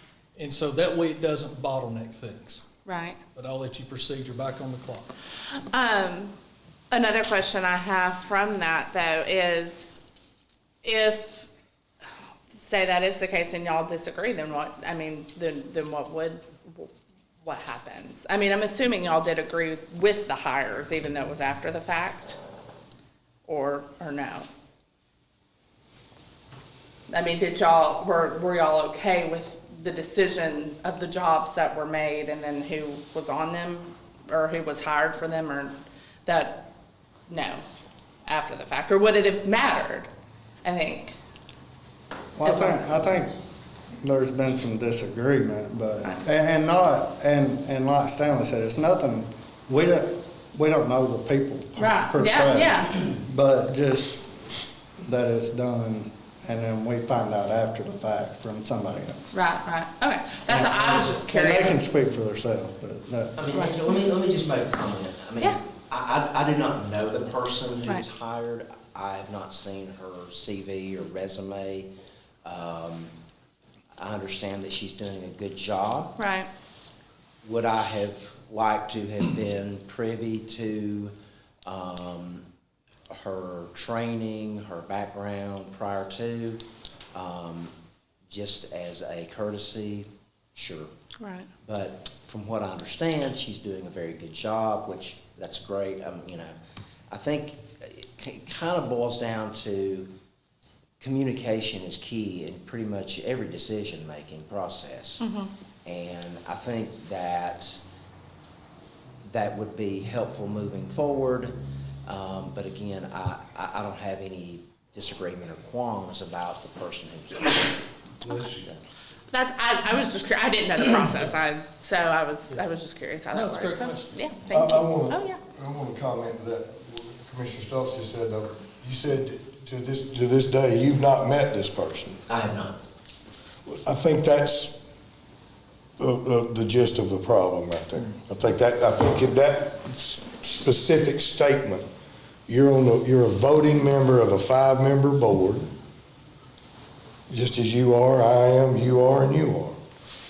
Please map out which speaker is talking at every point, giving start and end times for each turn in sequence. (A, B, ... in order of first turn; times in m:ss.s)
0:00.4-0:02.7 A
0:02.8-0:03.2 B
0:03.3-0:05.1 A
0:05.5-0:06.3 B
0:06.9-0:10.0 B
0:10.8-0:11.5 B
0:12.5-0:16.9 B
0:17.4-0:22.4 B
0:23.5-0:24.5 B
0:27.1-0:35.7 B
0:36.2-0:36.7 B
0:37.3-0:37.6 B
0:38.2-0:40.1 B
0:40.6-0:41.2 B
0:42.4-0:43.3 C
0:42.4-0:43.0 B
0:44.0-0:54.3 C
0:51.8-0:53.0 B
0:55.0-0:59.2 C
0:59.3-1:01.8 B
1:00.5-1:03.4 C
1:03.4-1:11.9 D
1:12.4-1:13.1 D
1:13.9-1:16.1 D
1:16.2-1:16.5 B
1:17.4-1:21.1 D
1:21.7-1:22.4 D
1:23.1-1:27.7 D
1:28.3-1:30.9 D
1:31.2-1:31.5 B
1:31.6-1:36.6 D
1:37.1-1:40.1 D
1:41.0-1:45.2 D
1:45.2-1:45.5 B
1:45.8-1:47.8 D
1:49.2-1:51.6 D
1:52.0-1:57.8 D
1:58.2-1:58.7 E
1:58.4-1:58.8 D
1:59.3-2:05.4 B
2:03.3-2:04.2 A
2:04.5-2:12.2 E
2:12.3-2:12.8 D
2:13.7-2:14.8 E
2:16.0-2:21.8 E
2:22.5-2:25.7 E
2:27.3-2:29.8 E